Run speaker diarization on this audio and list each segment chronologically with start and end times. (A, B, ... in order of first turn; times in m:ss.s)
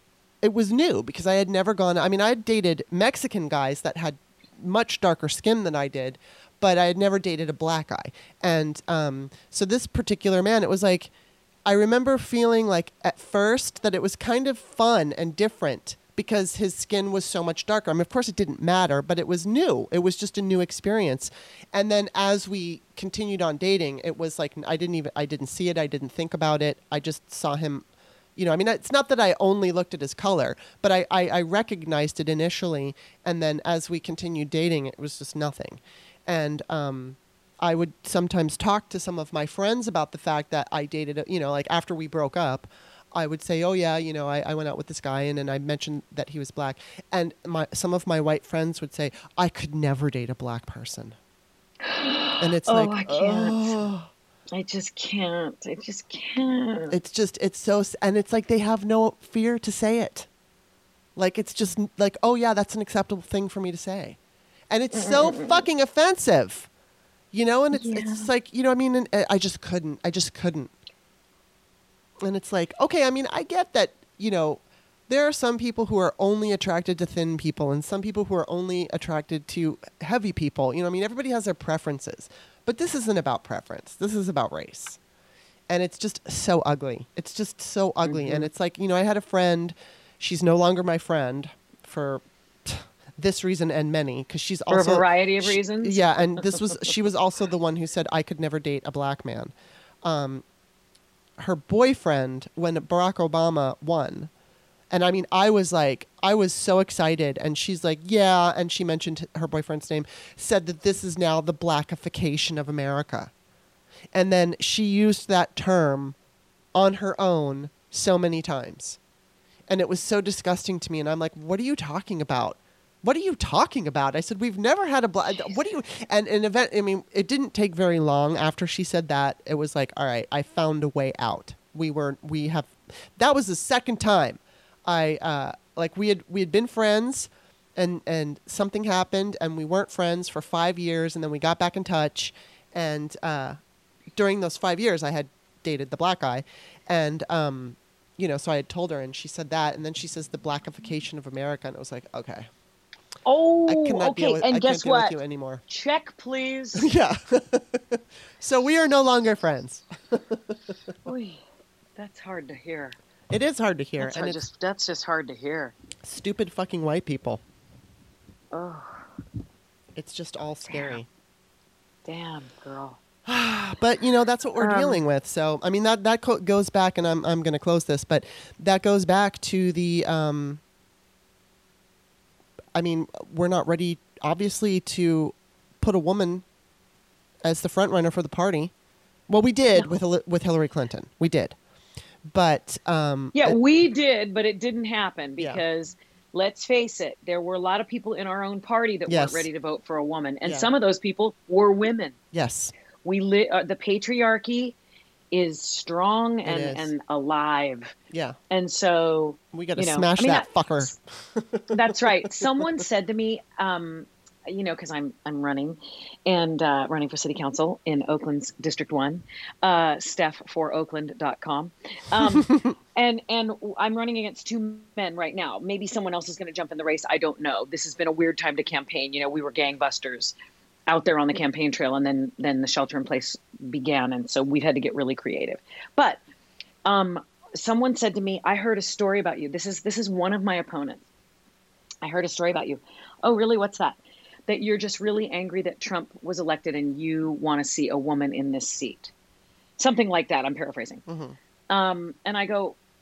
0:00.4-0:11.1 A
0:11.7-0:51.2 A
0:51.8-0:53.7 B
0:52.4-0:54.1 A
0:54.5-0:57.0 B
0:56.9-1:00.3 A
1:01.2-1:04.2 A
1:04.7-1:06.7 A
1:04.9-1:05.6 B
1:07.3-1:10.7 A
1:07.7-1:08.3 B
1:12.2-1:25.0 A
1:25.7-1:39.5 A
1:28.0-1:28.5 B
1:34.7-1:36.9 B
1:40.0-1:40.4 A
1:41.4-1:44.3 A
1:44.9-1:53.3 A
1:54.1-1:56.2 A
1:56.7-1:59.0 A
1:59.7-2:23.6 A
2:24.2-2:32.5 A
2:33.2-2:36.9 B
2:33.7-2:35.6 A
2:36.8-2:40.6 A
2:41.0-2:41.4 B
2:42.0-2:43.0 B
2:43.3-2:44.4 A
2:44.0-2:45.8 B
2:46.0-2:47.4 A
2:48.5-2:49.1 B
2:50.0-2:51.1 A
2:50.7-2:51.0 B
2:52.1-2:53.0 B
2:53.3-3:00.6 A
2:54.6-2:55.0 B
3:02.7-3:06.4 A
3:07.4-3:08.7 A
3:09.3-3:11.6 A
3:12.3-3:13.6 A
3:13.4-3:22.2 B
3:19.1-3:19.5 A
3:20.4-3:20.7 A
3:22.3-3:22.7 A
3:23.0-3:24.8 B
3:25.3-3:28.0 B
3:26.4-3:26.9 A
3:28.5-3:30.9 B
3:29.5-3:32.8 A
3:31.7-3:50.4 B
3:42.4-3:42.7 A
3:50.9-3:56.2 B
3:56.9-4:01.1 B
4:02.0-4:09.1 B
4:09.8-4:11.0 B
4:11.1-4:11.4 A
4:11.7-4:12.8 B